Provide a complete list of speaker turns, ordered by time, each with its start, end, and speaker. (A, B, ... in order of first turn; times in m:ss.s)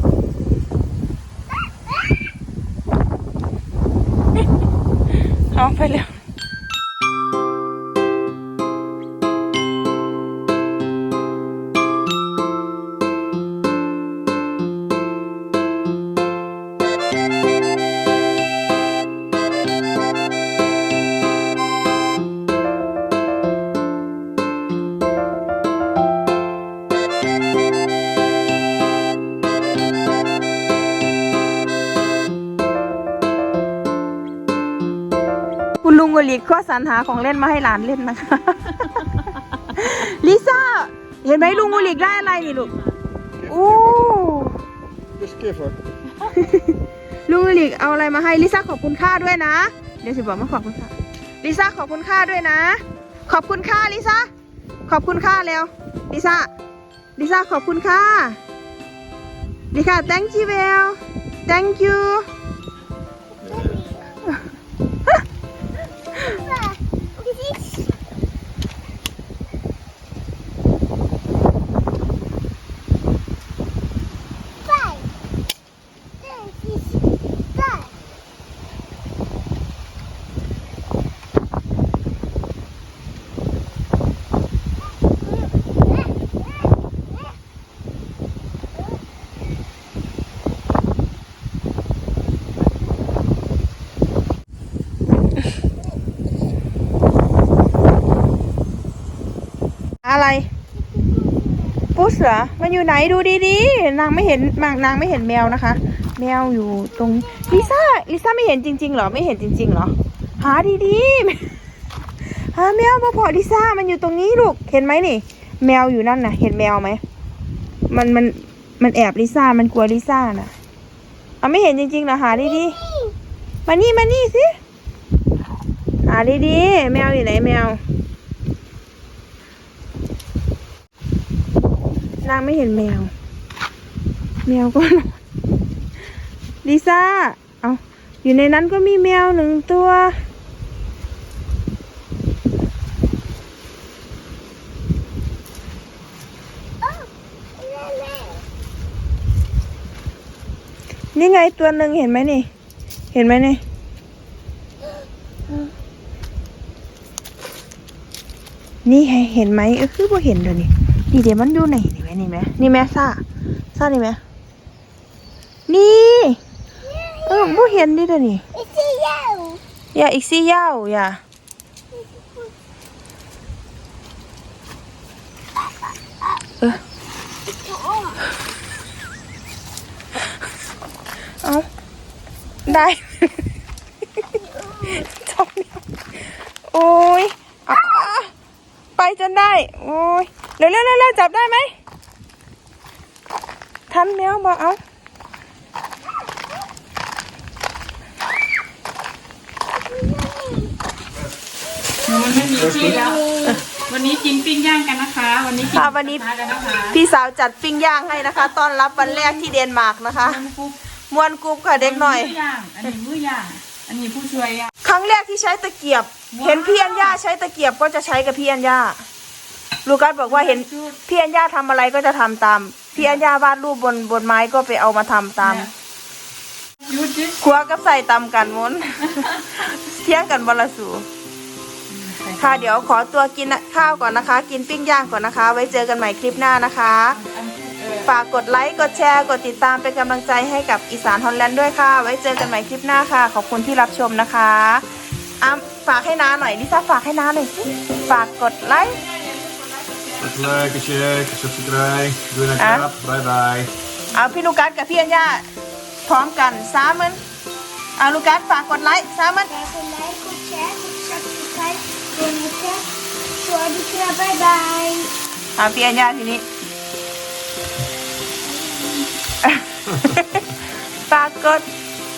0:05.5-0:06.1 A
0:35.8-0:39.0 A
0:39.7-0:42.7 A
0:41.4-0:43.0 B
0:43.4-0:44.6 A
0:45.2-0:45.7 C
0:46.3-0:46.7 A
0:47.3-0:54.3 A
0:54.9-0:56.5 A
0:57.2-0:58.4 A
0:59.7-1:02.2 A
1:03.4-1:04.2 D
1:06.1-1:07.9 D
1:14.6-1:15.1 D
1:16.2-1:17.0 D
1:17.6-1:17.9 D
1:40.0-1:40.5 A
1:41.0-1:41.8 D
1:41.9-1:51.5 A
1:47.3-1:47.6 D
1:52.2-1:57.0 A
1:57.9-2:00.5 A
2:01.4-2:02.8 A
2:02.3-2:03.1 D
2:03.6-2:04.6 A
2:06.0-2:07.8 A
2:12.2-2:13.1 A
2:14.4-2:15.2 A
2:16.6-2:20.1 A
2:27.6-2:28.4 D
2:31.1-2:32.4 A
2:33.1-2:33.6 A
2:38.8-2:43.2 A
2:43.7-2:44.2 A
2:45.7-2:46.4 A
2:46.8-2:47.9 D
2:47.2-2:48.4 A
2:48.5-2:49.6 D
2:49.9-2:51.2 A
2:51.9-2:52.5 D
2:57.5-2:58.2 D
3:02.6-3:03.3 A
3:04.4-3:05.0 D
3:04.9-3:08.3 A
3:09.0-3:11.7 A
3:13.9-3:14.8 A
3:22.0-3:27.0 B
3:22.9-3:23.5 D
3:25.7-3:26.2 A
3:26.9-3:30.4 A
3:29.0-3:29.4 B
3:30.1-3:30.8 B
3:31.1-3:32.4 A
3:31.8-3:34.7 B
3:34.8-3:39.0 A
3:36.3-3:37.2 B
3:39.8-3:45.7 A
3:40.2-3:41.0 B
3:43.0-3:43.2 B
3:45.4-3:45.7 B
3:46.8-3:47.4 B
3:47.4-3:51.0 A
3:49.1-3:49.4 B
3:51.9-3:52.8 B
3:52.4-3:57.2 A
3:57.1-3:59.5 B
3:58.0-4:04.8 A
4:05.4-4:09.0 A
4:08.4-4:10.7 B
4:10.2-4:13.7 C
4:12.6-4:12.9 A
4:14.1-4:15.4 A
4:16.0-4:17.2 A
4:18.0-4:19.5 A
4:19.5-4:25.1 D
4:25.6-4:26.4 A
4:28.5-4:29.1 D
4:29.4-4:30.5 A
4:31.1-4:31.7 A